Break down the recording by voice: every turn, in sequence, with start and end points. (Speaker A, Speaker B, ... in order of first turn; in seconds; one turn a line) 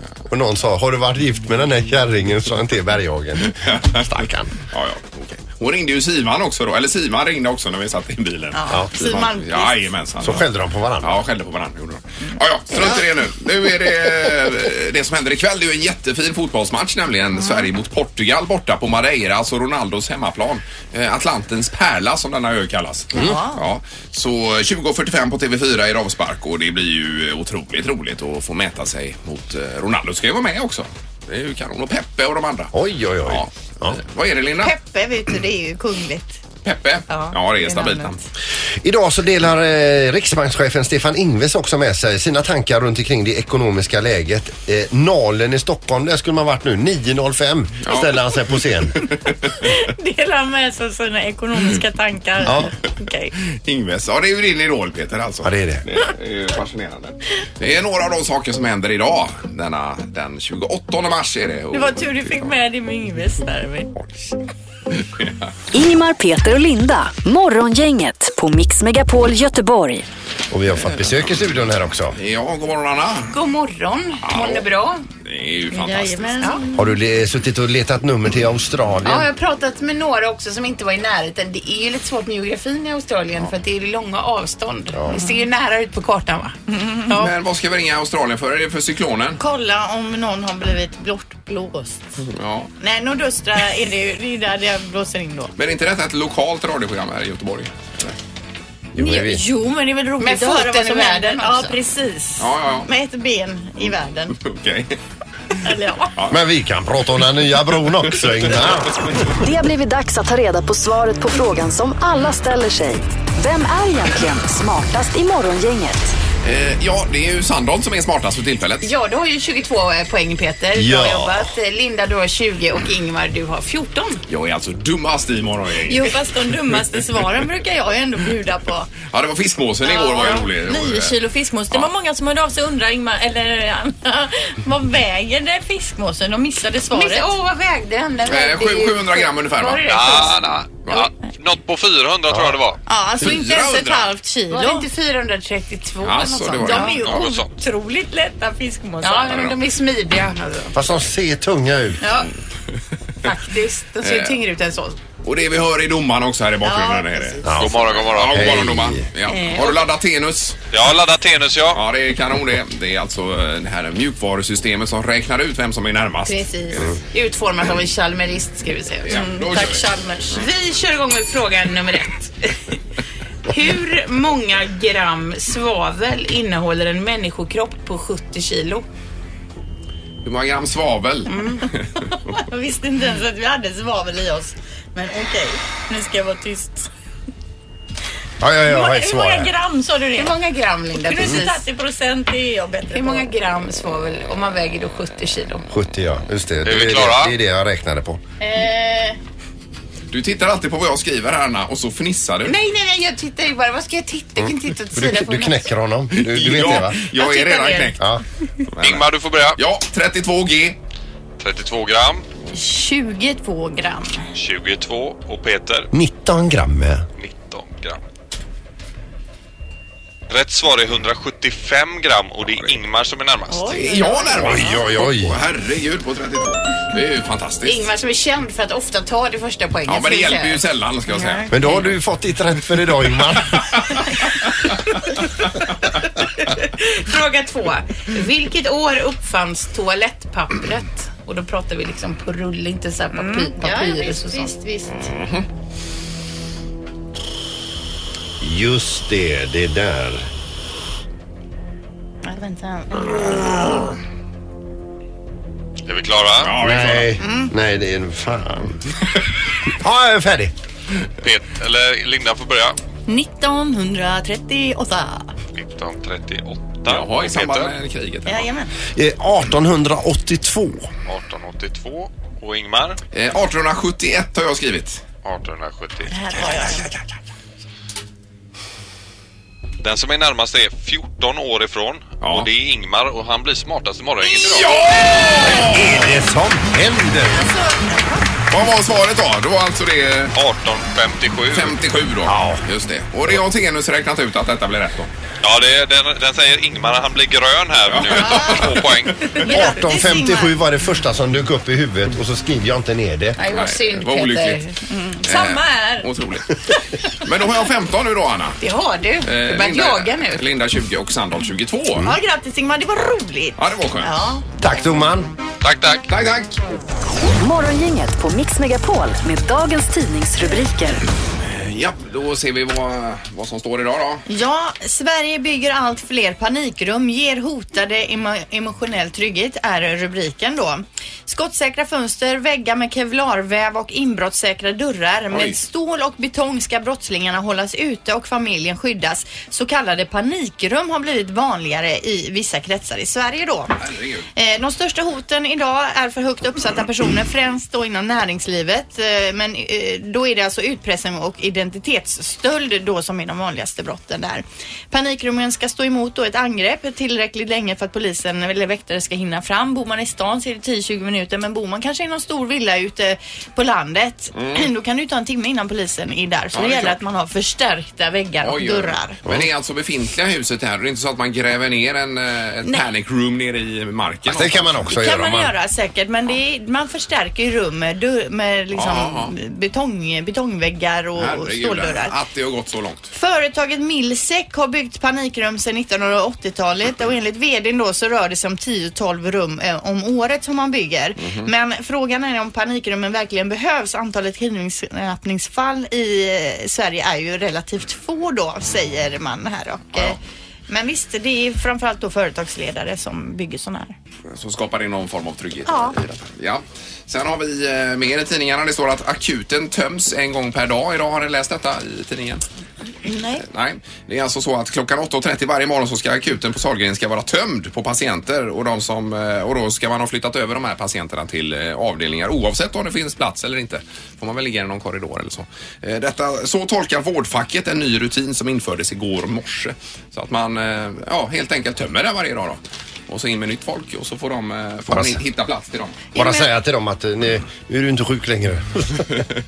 Speaker A: 0.3-4.5
Speaker B: 3.4-10.5
Speaker C: 8.5-9.8
Speaker A: 10.2-11.2
Speaker B: 11.0-32.7
Speaker C: 17.4-17.6
Speaker C: 23.1-23.6
Speaker A: 32.7-34.0
Speaker B: 33.2-34.7
Speaker C: 34.6-36.4
Speaker B: 36.6-38.2
Speaker C: 37.1-38.1
Speaker A: 38.7-49.0
Speaker B: 47.9-48.3
Speaker C: 49.6-53.3
Speaker A: 52.4-52.7
Speaker B: 53.4-62.1
Speaker A: 55.4-55.8
Speaker C: 61.7-64.0
Speaker B: 65.0-65.3
Speaker D: 65.7-70.1
Speaker A: 70.5-72.2
Speaker B: 70.8-71.4
Speaker B: 72.1-73.3
Speaker E: 73.3-75.0
Speaker B: 74.2-74.7
Speaker B: 75.2-76.5
Speaker C: 75.7-77.0
Speaker A: 76.7-79.3
Speaker E: 79.0-87.3
Speaker C: 86.7-87.2
Speaker B: 87.1-89.4
Speaker C: 89.4-92.0
Speaker B: 92.2-92.7
Speaker C: 92.8-95.5
Speaker B: 95.6-98.1
Speaker A: 98.9-99.4
Speaker C: 99.0-104.4
Speaker E: 100.2-101.8
Speaker B: 102.4-102.9
Speaker B: 104.3-105.0
Speaker C: 105.6-106.1
Speaker A: 106.3-109.2
Speaker B: 108.1-108.5
Speaker D: 109.4-116.1
Speaker B: 116.4-118.9
Speaker E: 118.8-124.2
Speaker A: 120.7-121.5
Speaker B: 124.3-126.2
Speaker C: 125.9-128.9
Speaker B: 129.0-131.2
Speaker C: 129.8-137.3
Speaker E: 136.9-140.4
Speaker B: 138.2-141.1
Speaker F: 139.8-142.8
Speaker A: 142.3-142.6
Speaker C: 142.9-144.8
Speaker B: 143.2-144.1
Speaker E: 144.5-147.1
Speaker B: 146.0-147.1
Speaker C: 146.6-149.3
Speaker F: 146.8-147.5
Speaker E: 149.0-150.8
Speaker B: 149.3-149.6
Speaker A: 150.7-152.0
Speaker E: 152.0-152.3
Speaker E: 153.2-155.0
Speaker B: 154.0-154.4
Speaker B: 155.2-160.6
Speaker C: 156.6-157.4
Speaker A: 157.4-159.0
Speaker F: 157.6-158.4
Speaker C: 159.3-159.8
Speaker F: 160.7-161.8
Speaker B: 161.7-166.9
Speaker C: 166.2-166.8
Speaker E: 167.1-172.6
Speaker B: 169.0-169.8
Speaker C: 169.1-170.2
Speaker E: 173.4-178.8
Speaker B: 180.2-181.8
Speaker C: 181.4-181.6
Speaker C: 182.3-186.7
Speaker E: 185.9-186.8
Speaker A: 188.4-189.5
Speaker C: 188.7-190.3
Speaker E: 190.1-191.6
Speaker C: 191.1-193.3
Speaker E: 192.9-195.7
Speaker A: 195.7-198.2
Speaker F: 196.6-197.3
Speaker C: 198.4-199.2
Speaker B: 200.1-202.5
Speaker E: 202.4-205.7
Speaker A: 204.4-207.0
Speaker B: 206.1-208.0
Speaker E: 207.2-208.0
Speaker B: 208.7-210.8
Speaker F: 208.8-209.6
Speaker F: 211.4-212.2
Speaker C: 212.5-214.2
Speaker F: 214.3-215.9
Speaker A: 215.9-217.1
Speaker F: 217.2-218.0
Speaker F: 220.3-223.7
Speaker B: 222.5-222.8
Speaker C: 223.5-224.7
Speaker B: 223.7-227.9
Speaker A: 224.3-225.4
Speaker E: 227.6-230.6
Speaker B: 229.8-231.9
Speaker C: 231.1-231.8
Speaker A: 231.5-233.7
Speaker E: 236.5-244.5
Speaker C: 243.1-245.1
Speaker B: 244.9-245.4
Speaker A: 248.4-250.3
Speaker C: 252.2-253.8
Speaker F: 255.8-256.6
Speaker B: 256.4-257.1
Speaker A: 256.6-258.8
Speaker C: 257.2-257.5
Speaker A: 259.6-260.5
Speaker F: 261.2-262.8
Speaker C: 263.1-265.3
Speaker F: 265.5-267.7
Speaker B: 266.9-268.5
Speaker C: 268.2-268.7
Speaker A: 268.9-270.9
Speaker F: 271.1-273.0
Speaker B: 273.1-275.0
Speaker F: 275.2-276.5
Speaker C: 276.1-276.9
Speaker F: 279.8-284.8
Speaker B: 282.2-282.5
Speaker B: 284.2-286.0
Speaker C: 284.3-285.6
Speaker A: 285.4-287.4
Speaker C: 287.2-288.3
Speaker B: 288.5-290.3
Speaker F: 290.3-291.8
Speaker B: 291.5-295.1
Speaker A: 292.2-292.6
Speaker F: 295.4-299.3
Speaker B: 297.8-299.5
Speaker C: 298.2-298.6
Speaker C: 299.3-300.6
Speaker A: 299.5-303.4
Speaker E: 303.4-304.8
Speaker B: 303.5-304.6
Speaker C: 304.9-306.0
Speaker B: 305.2-308.6
Speaker E: 308.6-310.4
Speaker B: 309.2-312.1
Speaker C: 312.0-314.4
Speaker B: 313.6-314.3
Speaker A: 314.6-315.3
Speaker F: 315.6-316.1
Speaker B: 316.1-316.6
Speaker D: 317.4-321.0
Speaker B: 321.4-324.2
Speaker C: 324.3-343.7
Speaker B: 335.3-335.6
Speaker B: 343.8-344.3
Speaker C: 344.3-369.2
Speaker B: 364.3-364.6
Speaker B: 366.5-367.0
Speaker B: 368.4-374.7
Speaker A: 374.3-375.5
Speaker C: 374.9-382.1
Speaker B: 378.7-379.3
Speaker B: 381.2-383.1
Speaker C: 383.1-400.2
Speaker B: 391.2-391.5
Speaker C: 400.7-403.9
Speaker B: 404.3-412.4
Speaker C: 405.6-405.9
Speaker C: 413.0-413.4
Speaker B: 413.4-436.0
Speaker A: 434.9-435.2
Speaker C: 436.1-436.5
Speaker A: 436.1-439.1